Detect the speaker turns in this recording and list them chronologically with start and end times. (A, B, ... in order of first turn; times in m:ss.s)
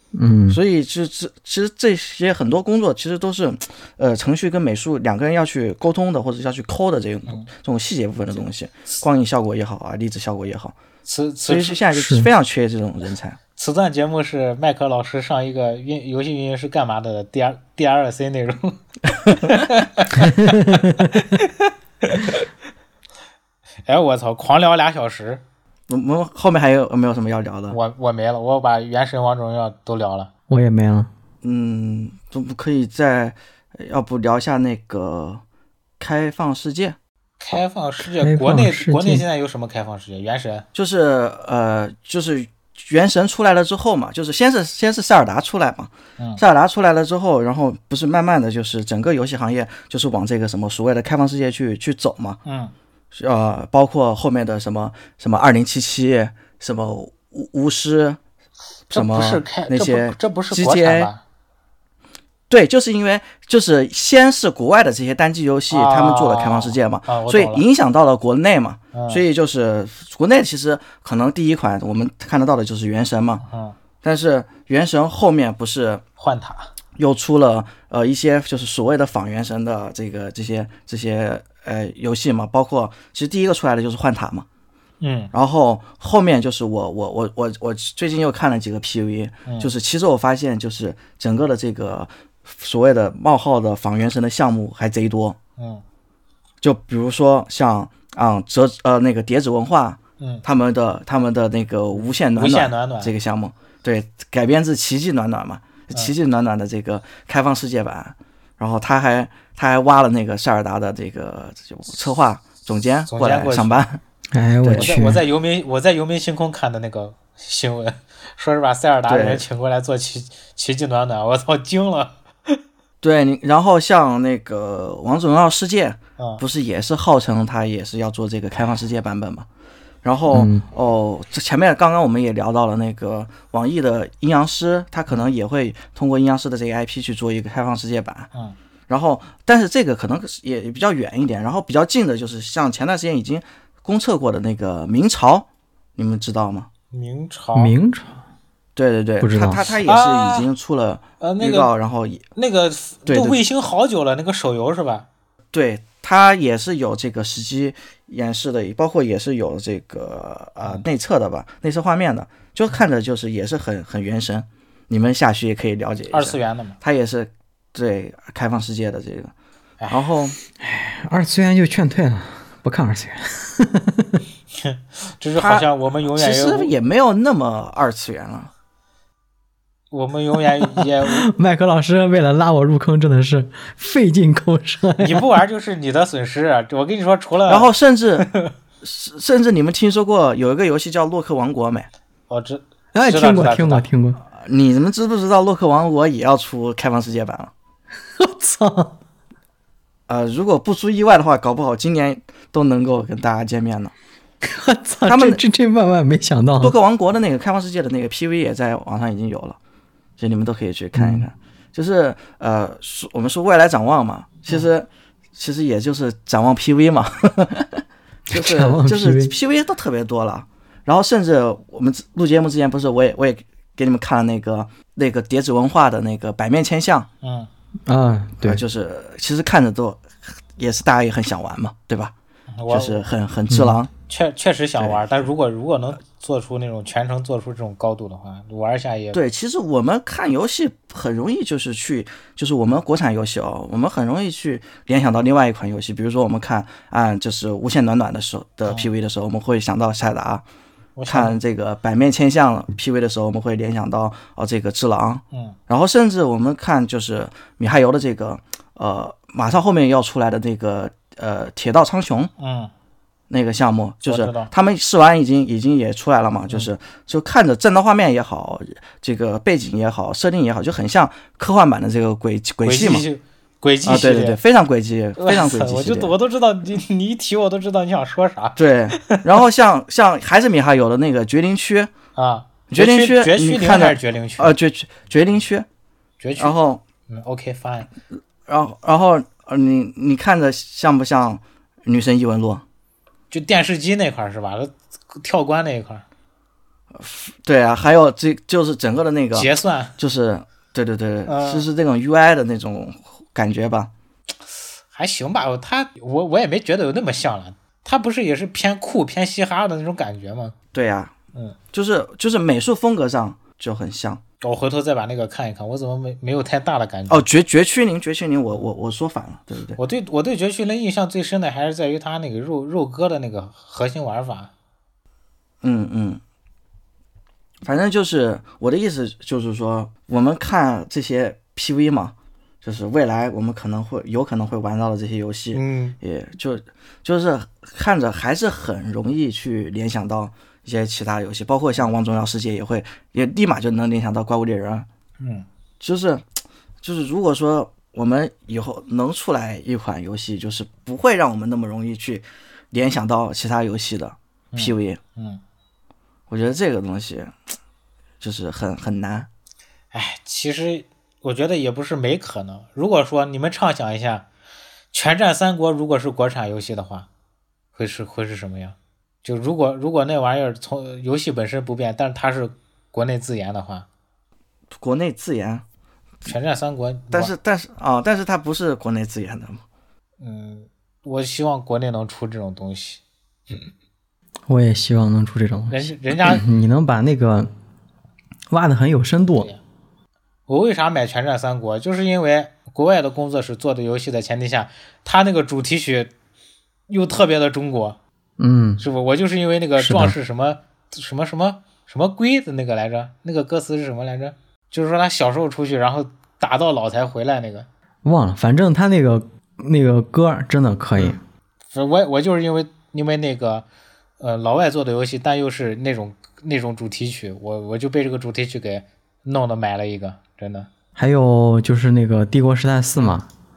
0:00.2-0:00.6 A
0:00.5-0:10.8 B
0:11.0-0:11.8 C
0:11.5-0:13.4 B
0:11.9-0:12.3 A
0:13.6-0:22.5 C
0:20.2-0:21.2 A
0:23.9-0:25.4 C
0:25.9-0:27.8 B
0:27.7-0:30.3 C
0:30.5-0:31.1 A
0:31.4-0:35.4 B
0:36.0-0:37.0 B
0:37.4-0:40.7 C
0:38.2-0:39.2 A
0:40.7-0:52.4 B
0:52.5-0:52.7 C
0:53.1-0:58.2 B
0:58.9-1:01.1 B
0:58.9-1:01.2 C
1:02.5-1:13.4 B
1:05.7-1:07.6 C
1:08.9-1:09.2 C
1:13.4-1:13.8 C
1:14.0-1:16.0 B
1:16.2-1:16.7 C
1:17.0-1:24.5 B
1:25.0-1:25.3 C
1:25.3-1:35.4 B
1:29.5-1:29.7 C
1:35.6-1:35.8 C
1:36.6-1:54.0 B
1:42.4-1:43.1 C
1:53.1-1:53.8 C
1:54.3-1:55.2 A
1:54.6-1:54.9 B
1:54.8-2:02.6 C
1:59.1-1:59.4 B
2:03.0-2:09.5 B
2:10.0-2:18.3 B
2:10.3-2:10.6 A
2:18.9-2:25.5 B
2:26.0-2:26.7 B
2:26.9-2:27.7 C
2:27.6-2:28.2 A
2:28.8-2:32.2 B
2:29.2-2:29.8 A
2:29.9-2:30.5 C
2:31.2-2:31.7 C
2:32.4-2:35.1 C
2:33.1-2:33.4 B
2:35.5-2:49.3 B
2:46.1-2:46.8 C
2:49.8-2:50.1 C
2:49.9-2:50.4 B
2:50.6-2:54.2 A
2:54.6-2:56.7 C
2:55.4-2:58.5 B
2:59.9-3:01.3 C
3:00.6-3:05.4 A
3:05.0-3:07.7 C
3:07.5-3:08.3 B
3:08.2-3:08.5 C
3:08.8-3:11.9 B
3:12.3-3:13.9 C
3:12.9-3:14.2 A
3:14.4-3:17.5 B
3:18.2-3:19.0 A
3:20.1-3:23.9 B
3:24.4-3:26.8 A
3:25.1-3:25.4 B
3:26.6-3:29.6 B
3:30.2-3:47.1 B
3:31.0-3:31.3 A
3:38.3-3:39.3 A
3:47.2-3:47.5 C
3:47.9-3:48.6 A
3:48.4-3:52.1 B
3:52.6-3:53.0 C
3:52.7-3:53.9 B
3:53.5-3:53.8 A
3:54.1-3:59.2 C
3:59.1-4:10.4 B
4:11.0-4:11.4 C
4:11.1-4:22.3 B
4:22.4-4:22.7 C
4:23.3-4:33.0 B
4:24.1-4:24.5 C
4:32.6-4:34.4 C
4:33.8-4:36.1 B
4:35.2-4:39.2 C
4:38.6-4:41.9 B
4:42.2-4:44.5 C
4:42.7-4:45.7 B
4:46.2-4:46.6 C
4:46.4-4:46.8 B
4:47.1-4:47.9 C
4:48.5-4:52.6 B
4:53.3-4:56.0 C
4:56.9-5:03.9 B
4:59.3-5:00.0 C
5:01.3-5:01.7 C
5:04.9-5:10.6 C
5:10.7-5:11.1 B
5:11.7-5:14.2 B
5:14.4-5:17.2 C
5:17.1-5:19.8 B
5:19.8-5:24.5 C
5:25.6-5:26.2 B
5:27.6-5:44.9 B
5:35.5-5:36.0 C
5:45.2-5:45.5 C
5:45.8-5:46.2 B
5:46.8-5:55.0 B
5:54.5-5:55.4 C
5:56.3-5:57.4 B
5:58.2-5:59.3 B
5:59.9-6:04.2 C
6:04.9-6:07.1 C
6:07.8-6:13.9 C
6:14.8-6:15.6 B
6:16.2-6:17.3 C
6:17.1-6:19.6 B
6:20.2-6:23.6 C
6:24.5-6:27.5 A
6:25.7-6:26.4 C
6:28.5-6:29.5 A
6:30.5-6:36.1 C
6:36.9-6:38.0 C
6:38.4-6:38.8 A
6:38.8-6:47.7 C
6:39.8-6:40.1 A
6:48.0-6:51.2 A
6:51.7-6:53.7 C
6:54.2-7:00.7 C
7:01.0-7:03.3 A